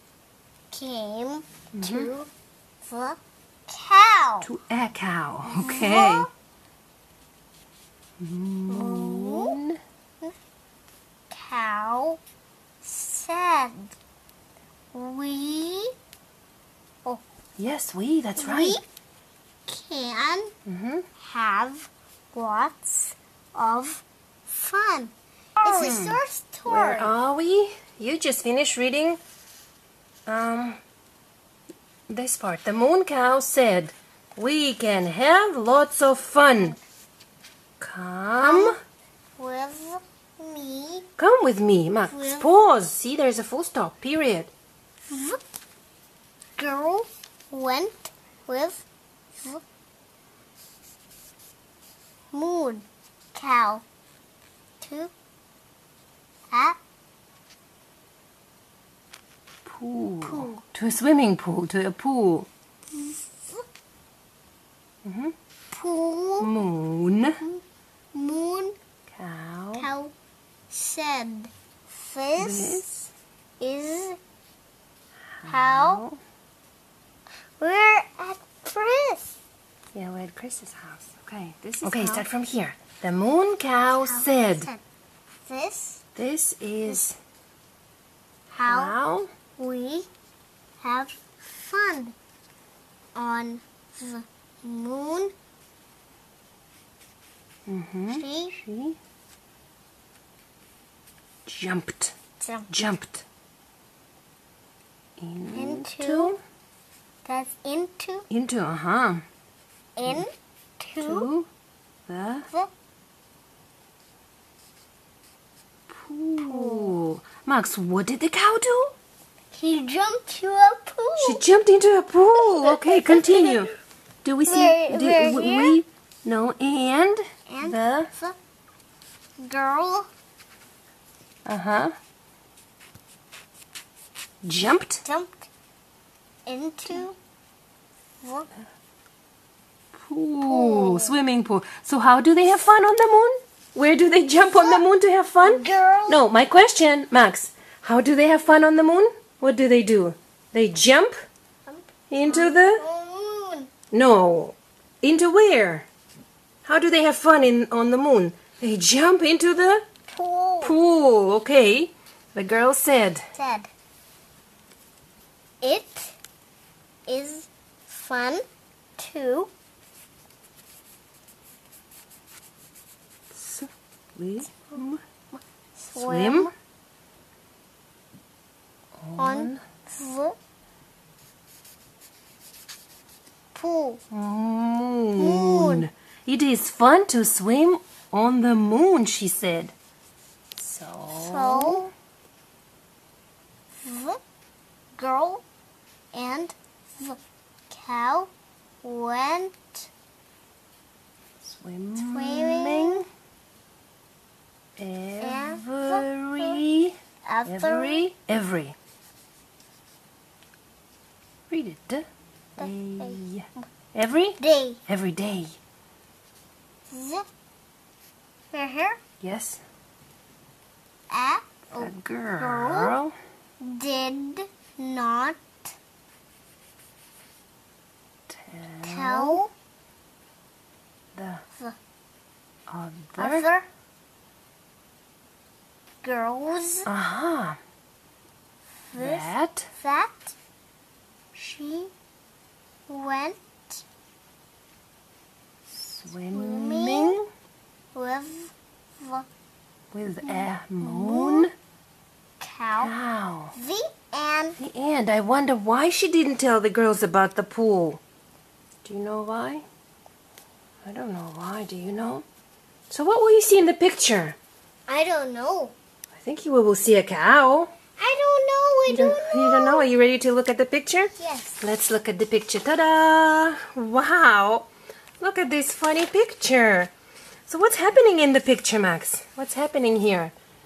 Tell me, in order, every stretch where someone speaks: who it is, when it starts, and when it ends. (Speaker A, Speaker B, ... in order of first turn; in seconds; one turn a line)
Speaker A: 0.7-2.3
Speaker B: 1.7-2.1
Speaker A: 2.8-4.5
Speaker B: 4.4-6.3
Speaker A: 5.5-6.3
Speaker B: 8.2-9.8
Speaker A: 8.7-9.6
Speaker A: 11.3-12.2
Speaker A: 12.8-13.9
Speaker A: 14.9-15.9
Speaker B: 17.6-18.8
Speaker A: 18.4-18.8
Speaker A: 19.7-20.5
Speaker B: 20.6-21.1
Speaker A: 21.2-27.1
Speaker B: 25.6-29.2
Speaker B: 30.3-30.8
Speaker B: 32.1-36.8
Speaker B: 37.8-38.7
Speaker A: 38.4-38.8
Speaker A: 39.4-41.1
Speaker B: 41.2-44.5
Speaker A: 42.1-42.5
Speaker A: 45.1-45.4
Speaker A: 46.6-48.8
Speaker A: 52.3-53.8
Speaker A: 54.8-55.1
Speaker A: 56.5-56.8
Speaker B: 59.6-62.5
Speaker A: 60.2-60.6
Speaker A: 62.9-63.6
Speaker B: 65.0-65.3
Speaker A: 65.7-66.5
Speaker B: 66.4-67.4
Speaker A: 68.1-68.8
Speaker B: 69.1-69.9
Speaker A: 69.8-70.1
Speaker A: 70.7-72.8
Speaker B: 72.4-73.1
Speaker A: 73.6-74.2
Speaker B: 75.4-76.2
Speaker A: 75.4-76.0
Speaker A: 77.6-79.4
Speaker B: 79.9-84.7
Speaker A: 81.8-82.2
Speaker A: 83.9-84.8
Speaker A: 85.4-86.0
Speaker B: 86.2-87.2
Speaker A: 88.5-88.9
Speaker B: 88.7-89.3
Speaker A: 89.6-90.1
Speaker A: 90.8-92.1
Speaker A: 93.1-95.3
Speaker B: 97.7-99.0
Speaker A: 98.1-98.6
Speaker B: 101.5-102.1
Speaker A: 102.4-102.7
Speaker B: 102.7-103.2
Speaker B: 105.2-106.4
Speaker A: 105.5-106.3
Speaker A: 107.2-108.2
Speaker B: 108.3-109.2
Speaker A: 110.0-111.3
Speaker B: 111.0-111.5
Speaker B: 112.1-112.5
Speaker B: 115.9-118.9
Speaker A: 116.4-117.0
Speaker A: 119.5-121.4
Speaker B: 121.2-123.7
Speaker A: 122.4-123.7
Speaker B: 124.2-128.1
Speaker A: 124.5-125.8
Speaker A: 127.5-128.3
Speaker A: 129.4-130.1
Speaker B: 131.4-131.9
Speaker B: 134.4-135.0
Speaker A: 135.0-135.5
Speaker A: 136.4-137.2
Speaker A: 138.2-138.5
Speaker B: 139.9-151.1
Speaker A: 140.4-141.1
Speaker A: 144.4-144.8
Speaker A: 145.4-146.2
Speaker A: 151.7-153.7
Speaker B: 152.1-152.8
Speaker B: 153.9-155.9
Speaker B: 156.6-159.8
Speaker A: 160.1-160.8
Speaker B: 160.6-163.2
Speaker A: 163.3-163.7
Speaker A: 165.6-166.1
Speaker A: 167.1-168.4
Speaker A: 169.0-169.5
Speaker B: 173.3-175.0
Speaker A: 175.8-176.5
Speaker B: 175.9-176.5
Speaker B: 179.0-179.6
Speaker A: 179.2-180.4
Speaker A: 183.5-184.0
Speaker B: 184.1-189.7
Speaker A: 185.2-185.9
Speaker B: 190.6-191.9
Speaker A: 191.1-191.8
Speaker A: 193.8-194.2
Speaker A: 194.9-195.4
Speaker A: 196.1-198.3
Speaker A: 198.8-199.9
Speaker B: 201.4-203.0
Speaker A: 201.9-203.0
Speaker B: 204.8-208.8
Speaker A: 205.2-206.6
Speaker A: 207.2-208.0
Speaker B: 211.5-215.6
Speaker A: 212.6-213.7
Speaker A: 214.4-214.8
Speaker A: 216.9-217.2
Speaker A: 218.5-219.0
Speaker B: 219.2-219.6
Speaker A: 221.1-222.9
Speaker B: 221.8-223.1
Speaker A: 223.6-225.4
Speaker B: 228.3-229.4
Speaker A: 228.8-229.5
Speaker B: 231.1-231.4
Speaker B: 232.7-233.5
Speaker A: 233.2-233.7
Speaker A: 236.0-236.9
Speaker B: 236.8-237.6
Speaker A: 238.9-240.3
Speaker B: 238.9-239.7
Speaker A: 241.3-241.9
Speaker A: 242.9-243.8
Speaker B: 245.7-247.3
Speaker A: 246.3-247.2
Speaker A: 247.9-249.3
Speaker B: 249.9-251.5
Speaker A: 250.2-251.5
Speaker A: 252.4-252.9
Speaker B: 252.7-253.5
Speaker A: 253.5-254.6
Speaker B: 254.6-258.0
Speaker B: 258.8-259.6
Speaker B: 260.8-262.2
Speaker B: 262.9-264.4
Speaker A: 264.9-265.7
Speaker B: 266.1-267.7
Speaker A: 268.0-269.8
Speaker B: 268.9-274.7
Speaker A: 271.2-271.6
Speaker B: 275.2-276.9
Speaker B: 277.5-280.3